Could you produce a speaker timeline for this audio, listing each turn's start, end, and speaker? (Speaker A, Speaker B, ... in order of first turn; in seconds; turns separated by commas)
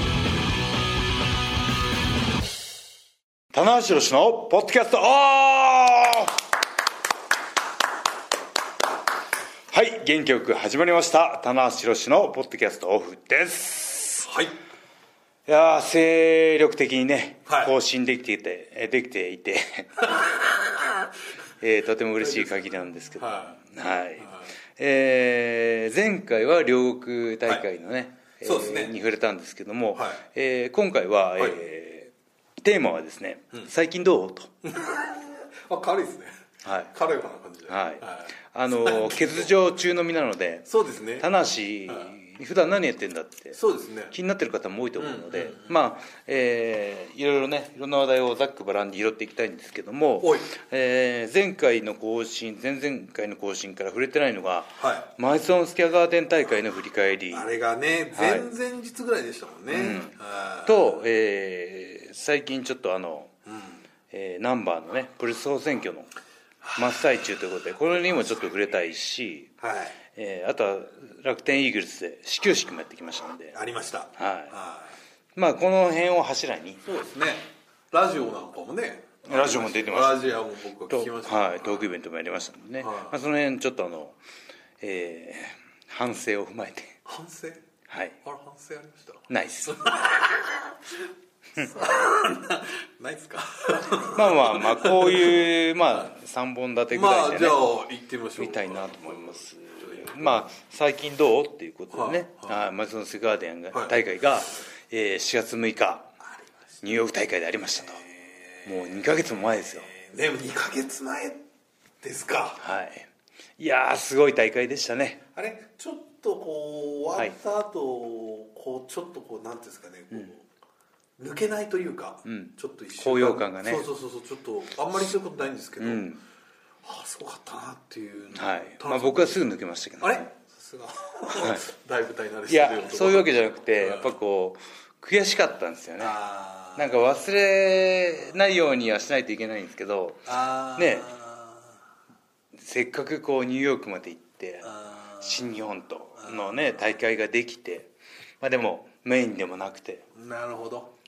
Speaker A: 3.5-6.4, Speaker A: 9.7-14.3, Speaker B: 14.2-14.6, Speaker A: 15.4-20.4, Speaker B: 17.4-17.7, Speaker B: 20.1-20.7, Speaker A: 21.6-34.5, Speaker B: 22.2-22.6, Speaker B: 23.2-23.6, Speaker B: 24.2-24.5, Speaker B: 28.4-28.9, Speaker B: 29.9-30.2, Speaker B: 34.6-39.5, Speaker A: 36.6-36.9, Speaker A: 37.7-40.7, Speaker B: 40.7-41.3, Speaker A: 41.2-43.6, Speaker B: 43.5-44.1, Speaker A: 44.1-57.5, Speaker B: 45.0-45.7, Speaker B: 50.2-50.5, Speaker B: 54.8-55.1, Speaker B: 57.3-61.0, Speaker A: 58.1-58.5, Speaker A: 59.7-63.3, Speaker B: 63.5-63.8, Speaker A: 64.1-66.1, Speaker B: 66.6-67.0, Speaker A: 66.8-69.5, Speaker B: 69.6-70.0, Speaker A: 70.1-73.5, Speaker B: 73.5-75.0, Speaker A: 74.2-74.5, Speaker A: 75.3-76.8, Speaker B: 76.8-81.9, Speaker A: 79.2-80.3, Speaker A: 80.9-84.2, Speaker B: 82.8-83.2, Speaker A: 84.8-87.0, Speaker B: 87.0-87.6, Speaker A: 87.9-88.2, Speaker B: 88.2-91.0, Speaker A: 89.3-90.0, Speaker B: 91.5-95.5, Speaker A: 94.1-97.6, Speaker B: 96.9-100.5, Speaker A: 98.4-106.1, Speaker B: 101.9-102.6, Speaker A: 106.8-108.0, Speaker B: 107.8-111.5, Speaker A: 108.6-109.9, Speaker B: 112.0-112.6, Speaker A: 112.6-115.2, Speaker B: 115.3-120.5, Speaker B: 121.2-126.1, Speaker A: 122.2-123.9, Speaker A: 125.8-126.2, Speaker B: 126.8-129.4, Speaker A: 128.3-130.2, Speaker B: 130.0-134.1, Speaker A: 132.5-136.2, Speaker B: 136.0-137.1, Speaker A: 136.8-141.1, Speaker B: 140.2-141.7, Speaker A: 142.5-150.1, Speaker B: 144.6-145.6, Speaker B: 146.2-146.5, Speaker B: 150.1-150.9